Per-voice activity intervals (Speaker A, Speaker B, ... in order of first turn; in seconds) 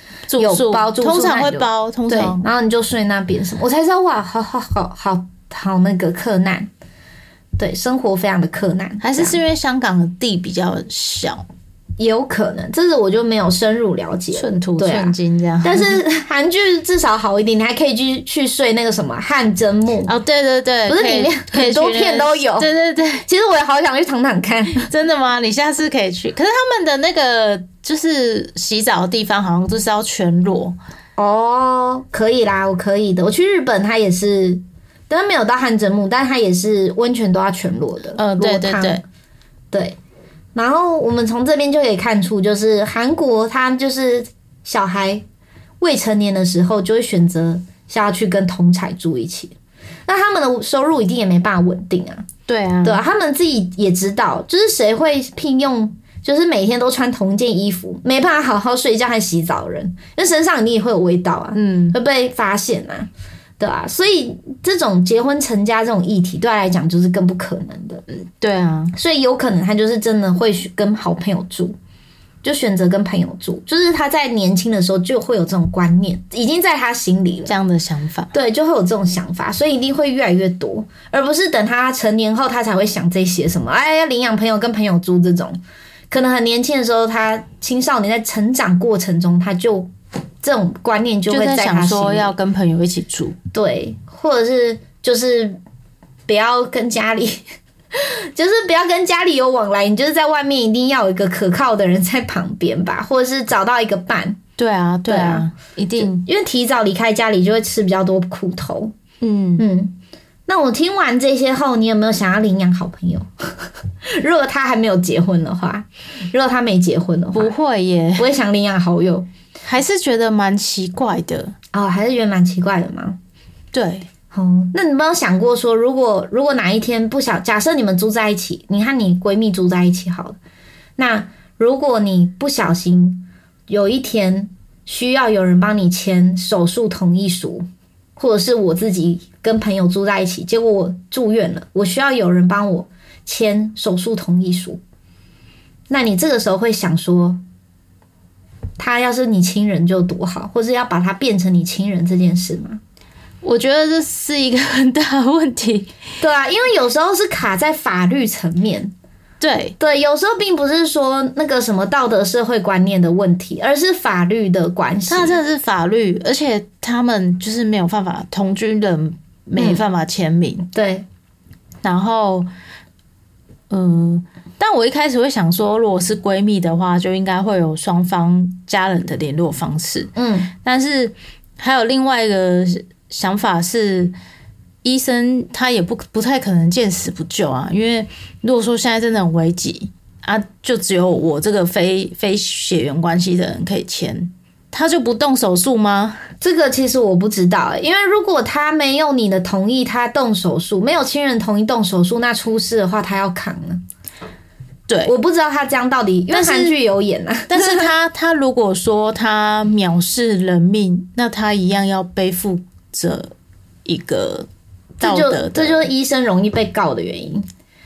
Speaker A: 0.3-2.4, 9.0-11.4, 14.3-15.9, 20.1-23.3, 24.7-30.8, 38.2-39.0, 52.5-53.0, 61.5-62.0, 68.4-68.9, 77.5-78.3, 91.3-93.4, 104.6-106.2, 109.2-109.6, 117.3-118.3, 119.6-121.5, 123.7-124.1, 153.4-155.9, 159.4-159.7, 165.1-170.7, 171.8-172.5, 173.7-184.1, 184.8-196.2, 206.3-206.7, 207.5-213.3, 213.8-214.5, 215.0-215.9
Speaker B: 0.4-6.7, 7.6-9.4, 12.0-20.1, 20.9-22.7, 23.3-24.9, 31.2-39.0, 40.5-45.2, 45.8-49.5, 50.1-52.3, 52.8-68.0, 68.9-71.8, 72.4-77.5, 78.3-85.6, 86.1-89.9, 90.4-92.3, 93.5-95.6, 96.3-97.4, 98.0-104.4, 105.1-108.9, 109.6-110.0, 110.5-117.5, 118.2-119.3, 121.7-123.2, 124.3-130.4, 131.0-137.6, 138.2-144.8, 145.9-147.4, 148.8-152.8, 156.2-158.9, 159.8-165.4, 169.6-169.8, 170.7-171.1, 180.2-180.5, 196.4-203.8, 205.1-207.9, 215.0-217.4